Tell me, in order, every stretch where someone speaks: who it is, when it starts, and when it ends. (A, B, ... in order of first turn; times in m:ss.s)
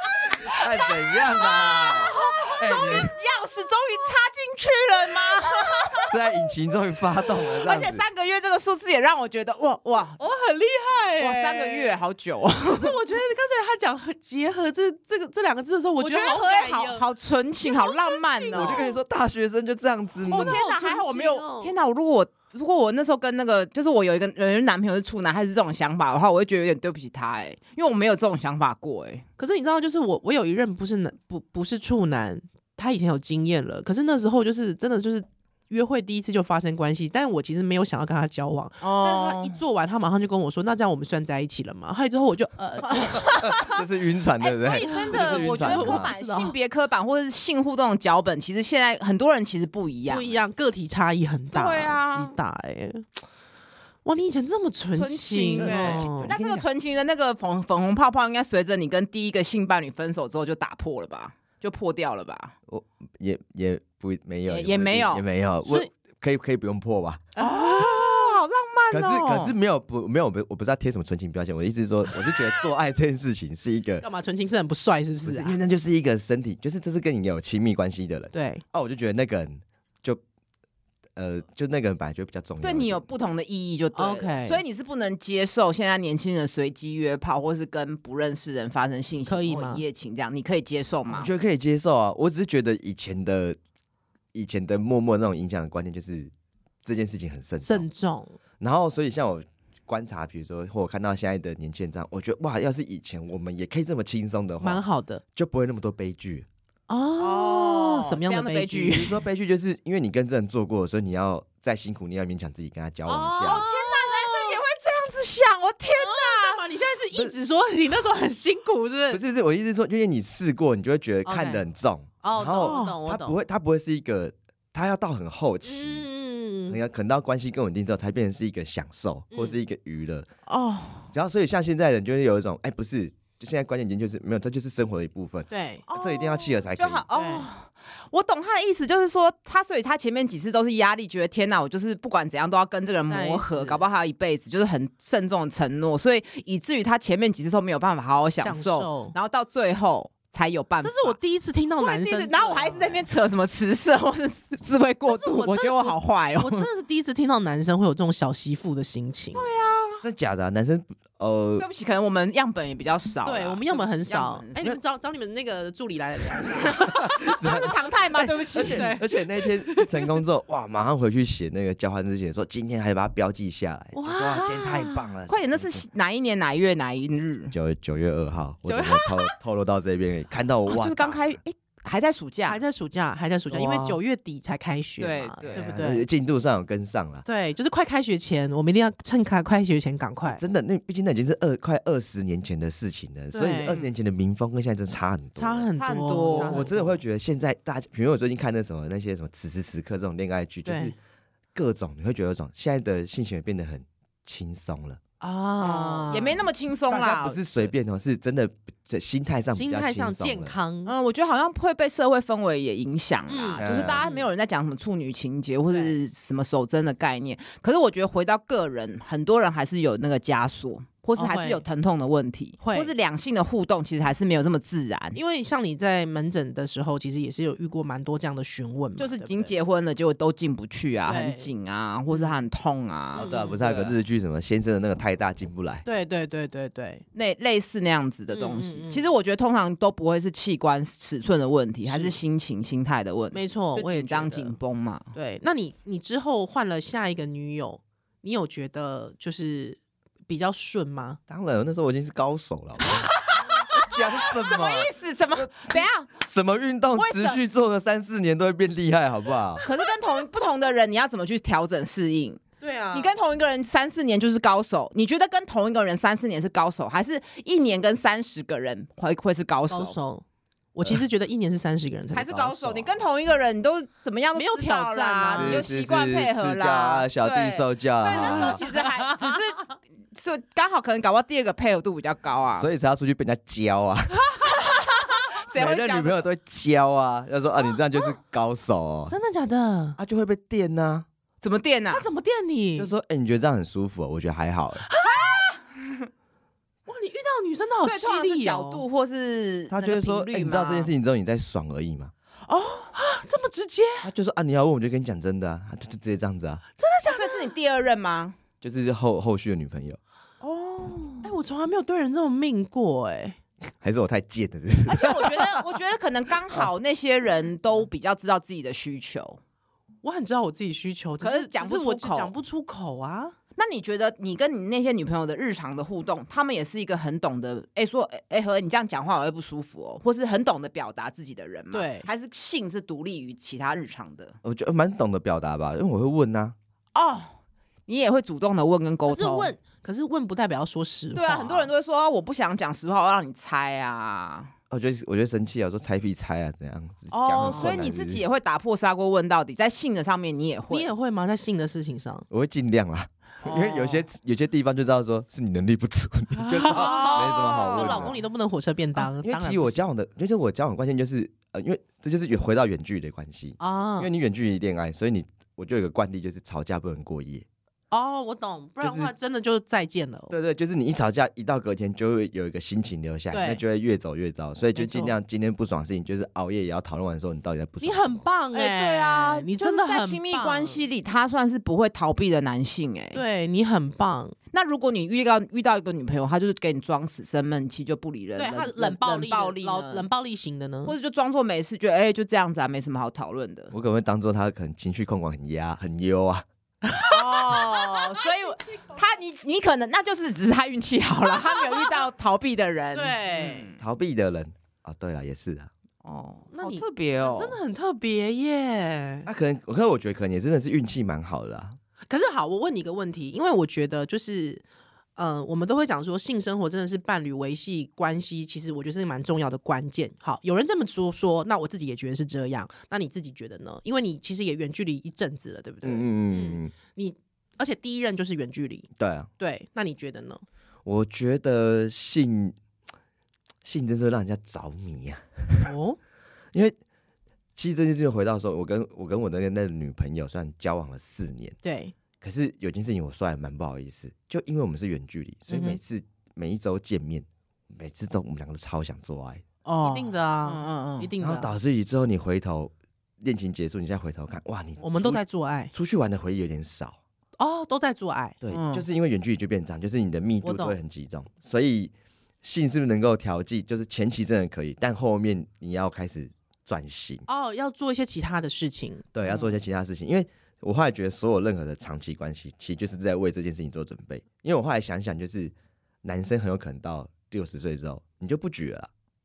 0:00.4-0:03.1 A
0:01.1-0:06.1 B
0:02.0-0:02.8 C
0:05.3-0:06.1 C
0:06.1-0:08.0 A
0:07.4-0:10.2 B
0:10.2-0:12.0 C
0:11.2-0:13.0 B
0:12.6-0:17.0 C
0:16.0-0:18.8 B
0:17.6-0:18.9 C
0:18.5-0:20.6 A
0:20.3-0:21.7 C
0:20.3-0:29.2 B
0:29.4-0:43.8 C
0:38.8-0:39.6 B
0:42.8-0:43.6 B
0:43.3-0:46.1 A
0:44.4-0:50.4 B
0:44.8-0:46.5 C
0:50.1-0:53.0 C
0:51.5-0:52.3 B
0:54.0-0:56.3 C
0:55.0-1:02.5 B
0:55.6-0:56.7 A
1:02.7-1:07.2 A
1:04.5-1:05.2 B
1:05.6-1:05.9 C
1:07.4-1:08.3 C
1:07.4-1:09.5 B
1:08.9-1:14.0 A
1:14.0-1:15.6 C
1:15.2-1:20.2 A
1:18.3-1:18.6 C
1:21.2-1:23.0 A
1:22.6-1:31.3 B
1:23.9-1:24.6 C
1:29.3-1:29.8 C
1:31.1-1:33.6 A
1:34.3-1:36.3 A
1:36.8-1:37.9 A
1:37.6-1:38.4 C
1:38.6-1:44.8 A
1:44.6-1:45.2 C
1:45.3-1:46.5 A
1:46.9-1:49.1 C
1:47.2-1:49.1 B
1:48.9-1:53.6 A
1:53.1-1:54.6 C
1:53.4-1:56.6 B
1:55.9-1:59.2 C
1:59.1-2:06.0 A
2:01.2-2:01.6 C
2:02.2-2:03.4 C
2:02.6-2:03.0 B
2:05.6-2:06.8 C
2:06.7-2:10.3 A
2:11.1-2:17.0 A
2:15.5-2:15.8 C
2:15.9-2:31.2 B
2:17.1-2:17.5 C
2:23.1-2:23.8 C
2:28.4-2:29.1 C
2:30.8-2:33.0 C
2:31.8-2:36.7 B
2:35.0-2:39.4 C
2:39.3-2:40.0 B
2:40.0-2:41.6 A
2:41.6-2:44.7 B
2:43.2-2:47.5 C
2:46.9-2:55.8 A
2:47.3-2:48.9 B
2:48.5-2:49.9 C
2:53.9-2:55.0 C
2:55.3-2:57.5 B
2:57.5-3:01.4 A
2:58.7-2:59.3 C
3:00.7-3:02.6 B
3:02.5-3:06.0 C
3:03.5-3:04.0 A
3:05.0-3:05.5 B
3:05.4-3:07.2 A
3:07.2-3:10.4 C
3:10.2-3:15.7 A
3:13.3-3:13.8 C
3:15.4-3:17.0 C
3:15.8-3:16.6 B
3:16.3-3:21.0 A
3:20.6-3:20.9 C
3:21.5-3:25.0 A
3:25.2-3:26.5 C
3:25.6-3:27.5 B
3:26.9-3:30.6 A
3:29.5-3:30.9 C
3:30.8-3:45.2 B
3:33.3-3:34.3 C
3:33.6-3:34.0 A
3:35.7-3:35.9 C
3:41.2-3:41.6 C
3:42.6-3:42.9 C
3:45.1-3:49.5 C
3:49.0-3:53.9 B
3:51.1-3:51.5 C
3:52.1-3:52.4 C
3:53.1-3:53.6 C
3:53.1-3:55.8 A
3:55.8-3:57.0 C
3:57.1-4:05.1 B
3:58.3-3:59.0 C
4:03.3-4:04.6 C
4:05.1-4:11.2 C
4:11.3-4:13.2 A
4:13.1-4:16.1 B
4:13.7-4:19.6 A
4:17.0-4:17.4 B
4:19.6-4:30.0 B
4:22.6-4:23.1 C
4:29.7-4:30.2 C
4:30.7-4:32.9 C
4:32.1-4:42.7 B
4:34.3-4:35.6 C
4:35.3-4:38.6 A
4:38.1-4:39.3 C
4:42.5-4:44.4 A
4:44.4-4:46.2 B
4:45.5-4:49.1 A
4:49.1-4:50.0 C
4:50.0-4:51.0 A
4:51.4-4:52.1 B
4:51.9-4:52.9 C
4:52.8-4:54.8 A
4:54.9-4:55.5 C
4:55.0-4:56.0 B
4:56.9-4:58.8 C
4:57.8-5:00.9 B
4:59.7-5:02.1 A
5:02.5-5:04.1 C
5:04.0-5:06.6 A
5:06.8-5:07.5 C
5:07.1-5:08.4 B
5:08.6-5:10.0 A
5:10.4-5:11.3 B
5:11.2-5:13.4 C
5:13.8-5:15.6 A
5:14.9-5:19.4 B
5:20.0-5:23.3 C
5:21.2-5:22.3 B
5:23.6-5:34.4 B
5:31.7-5:32.1 C
5:34.4-5:36.5 A
5:36.9-5:37.4 B
5:37.9-5:39.5 B
5:39.1-5:41.7 C
5:41.1-5:44.5 B
5:44.7-5:48.2 A
5:47.1-5:50.9 B
5:47.4-5:47.8 C
5:50.7-5:52.2 C
5:52.3-5:58.2 A
5:53.4-5:54.0 B
5:56.4-5:59.8 C
5:56.7-5:58.1 B
5:58.9-6:07.4 A
6:03.6-6:04.1 C
6:07.9-6:10.3 C
6:08.8-6:09.1 A
6:10.3-6:18.2 A
6:13.3-6:13.6 C
6:14.7-6:15.2 C
6:17.8-6:20.8 C
6:18.5-6:23.2 B
6:23.1-6:24.3 C
6:24.5-6:30.0 B
6:28.4-6:30.9 C
6:30.8-6:33.7 B
6:33.7-6:36.4 A
6:36.9-6:38.2 C
6:37.1-6:43.8 B
6:41.5-6:41.9 C
6:42.9-6:43.7 C
6:43.8-6:45.7 A
6:46.0-6:47.6 B
6:46.5-6:49.3 C
6:49.2-6:51.8 A
6:52.1-6:54.6 C
6:55.2-7:08.9 C
7:05.8-7:06.7 A
7:09.0-7:09.3 A
7:09.4-7:10.4 C
7:10.8-7:12.6 A
7:13.6-7:15.7 A
7:15.6-7:16.0 C
7:17.6-7:21.6 A
7:21.6-7:21.9 C
7:22.2-7:29.4 A
7:25.5-7:25.8 C
7:29.6-7:31.1 B
7:29.8-7:31.5 C
7:31.2-7:37.0 A
7:34.8-7:35.7 C
7:37.4-7:38.4 C
7:38.4-7:47.2 A
7:38.5-7:38.8 B
7:40.4-7:40.8 C
7:47.3-7:49.1 C
7:49.1-7:58.9 A